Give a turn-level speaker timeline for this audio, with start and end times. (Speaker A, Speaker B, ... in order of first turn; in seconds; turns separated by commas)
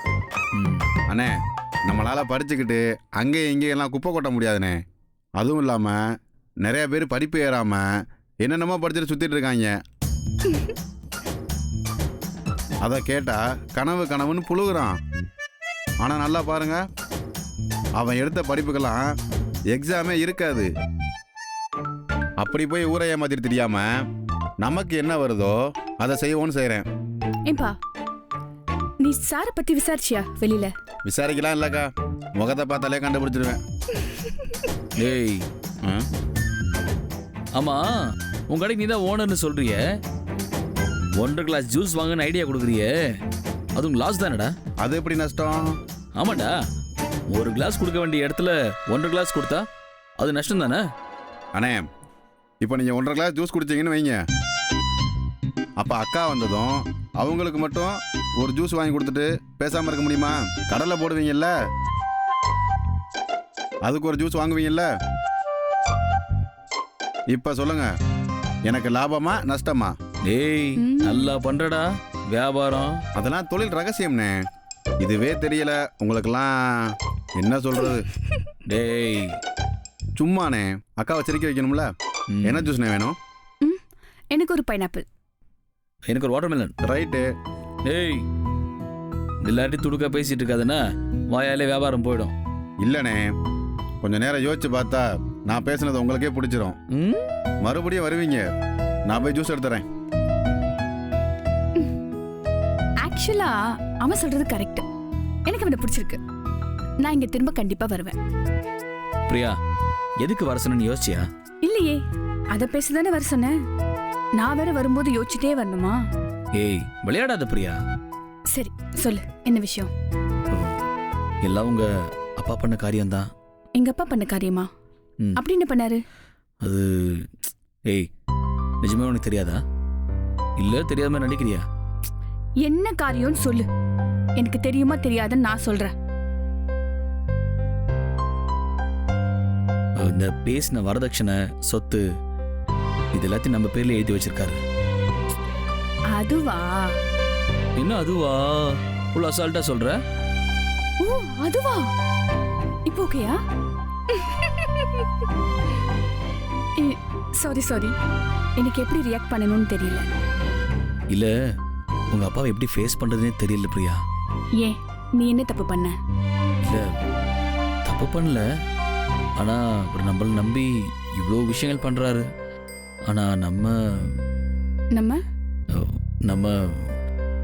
Speaker A: 0.6-0.9, Speaker B: 1.9-4.8, Speaker B: 5.4-6.0, Speaker B: 6.6-7.9, Speaker B: 8.4-9.8, Speaker B: 12.8-15.0, Speaker B: 16.0-16.8, Speaker B: 18.0-19.1, Speaker B: 19.7-20.7, Speaker B: 22.4-24.1, Speaker B: 24.6-26.9, Speaker C: 27.5-27.7, Speaker C: 29.0-30.7, Speaker B: 31.1-33.6, Speaker C: 34.2-34.6, Speaker A: 35.0-35.5, Speaker A: 37.5-37.8, Speaker A: 38.5-39.8, Speaker A: 41.2-43.1, Speaker A: 43.8-44.5, Speaker B: 44.8-45.8, Speaker A: 46.2-46.5, Speaker A: 47.3-49.6, Speaker A: 50.2-50.8, Speaker B: 51.5-51.9, Speaker B: 52.6-54.2, Speaker B: 55.8-61.5, Speaker B: 63.8-64.9, Speaker B: 67.3-67.9, Speaker B: 68.7-70.0, Speaker A: 70.2-73.0, Speaker C: 70.8-71.3, Speaker B: 73.2-74.4, Speaker B: 75.0-78.1, Speaker A: 78.7-79.4, Speaker B: 80.2-81.9, Speaker A: 82.3-82.7, Speaker B: 82.4-83.2, Speaker C: 83.6-85.0, Speaker A: 86.1-86.7, Speaker B: 86.8-87.3, Speaker A: 87.8-88.2, Speaker A: 89.4-92.3, Speaker B: 92.8-93.3, Speaker B: 94.0-96.8, Speaker A: 96.9-97.3, Speaker B: 97.6-98.4, Speaker B: 99.1-99.8, Speaker C: 103.0-104.9, Speaker C: 105.5-106.2, Speaker C: 107.0-108.1, Speaker A: 109.3-109.5, Speaker A: 110.2-111.2, Speaker C: 111.6-112.0, Speaker C: 112.5-113.5, Speaker C: 114.4-116.0, Speaker A: 116.6-117.8, Speaker C: 118.5-119.9, Speaker A: 120.5-120.8, Speaker A: 121.4-121.9, Speaker A: 122.4-123.3, Speaker C: 123.8-124.7, Speaker C: 125.4-126.0, Speaker A: 126.6-127.3, Speaker A: 128.8-129.6, Speaker A: 130.6-131.6, Speaker C: 132.6-133.7, Speaker C: 134.4-135.9, Speaker A: 140.0-142.0, Speaker A: 143.1-144.6, Speaker C: 146.2-146.9, Speaker A: 147.8-150.0, Speaker C: 151.0-151.8, Speaker C: 152.9-153.4, Speaker C: 154.1-155.1, Speaker C: 156.8-157.9, Speaker C: 158.6-160.1, Speaker A: 162.1-164.0, Speaker C: 164.6-165.9, Speaker A: 166.6-166.9, Speaker A: 167.8-168.4, Speaker A: 169.4-172.2, Speaker A: 173.1-174.1, Speaker C: 174.9-175.2, Speaker A: 175.7-177.0